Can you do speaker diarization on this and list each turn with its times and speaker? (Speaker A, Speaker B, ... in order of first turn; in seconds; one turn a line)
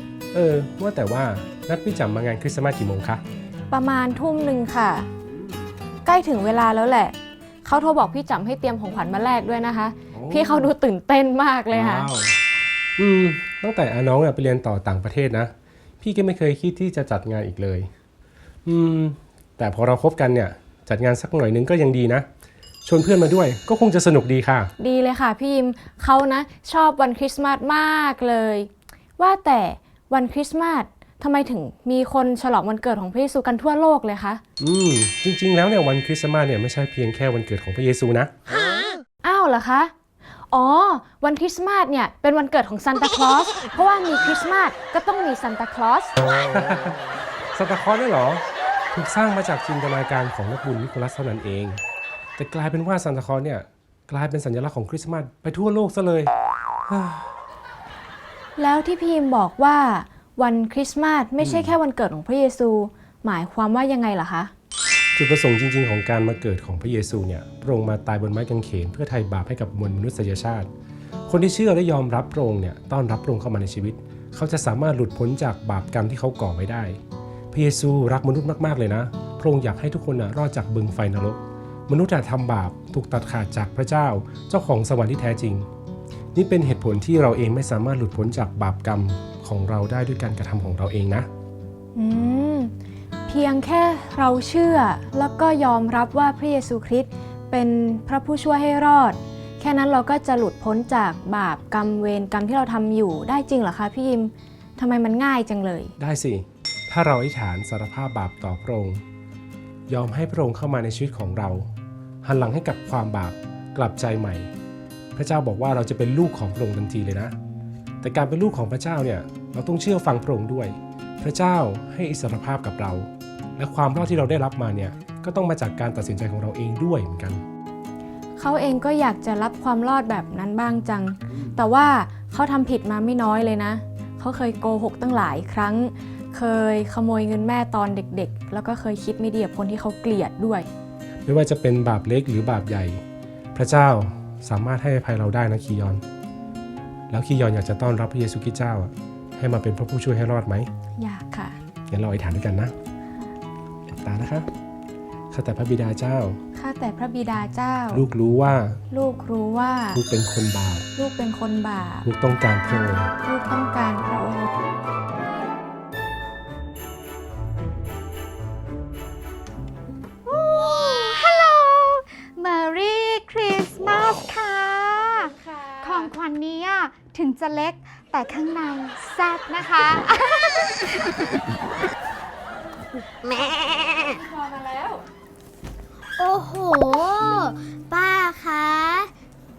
Speaker A: 0.3-3.2
Speaker B: 3.7-5.1
Speaker B: 6.0-12.1
Speaker A: 10.1-10.7
Speaker A: 11.7-12.4
Speaker A: 13.0-17.9
Speaker A: 18.7-22.3
Speaker A: 22.9-24.7
Speaker B: 24.8-34.4
Speaker A: 34.6-38.3
Speaker B: 39.2-39.9
Speaker B: 40.5-46.1
Speaker A: 46.3-47.0
Speaker A: 47.5-51.8
Speaker A: 52.4-56.3
Speaker A: 56.9-57.3
Speaker B: 58.6-64.5
Speaker A: 61.4-61.8
Speaker A: 65.2-70.7
Speaker A: 71.3-77.0
Speaker A: 77.5-85.7
Speaker A: 86.3-91.3
Speaker B: 92.0-92.7
Speaker B: 93.3-105.9
Speaker A: 106.0-109.0
Speaker A: 109.9-111.7
Speaker A: 112.2-114.5
Speaker A: 115.2-117.3
Speaker A: 118.0-127.4
Speaker B: 128.4-140.7
Speaker A: 141.3-143.0
Speaker A: 143.5-146.0
Speaker A: 147.1-150.7
Speaker B: 151.0-151.6
Speaker A: 151.9-152.7
Speaker A: 153.9-154.5
Speaker A: 155.3-156.4
Speaker B: 156.6-158.1
Speaker A: 157.9-158.8
Speaker B: 158.9-160.0
Speaker A: 159.9-160.9
Speaker B: 161.0-162.1
Speaker A: 162.1-163.1
Speaker B: 163.2-164.5
Speaker C: 170.3-180.9
Speaker B: 175.2-176.1
Speaker B: 184.0-185.0
Speaker D: 186.2-189.1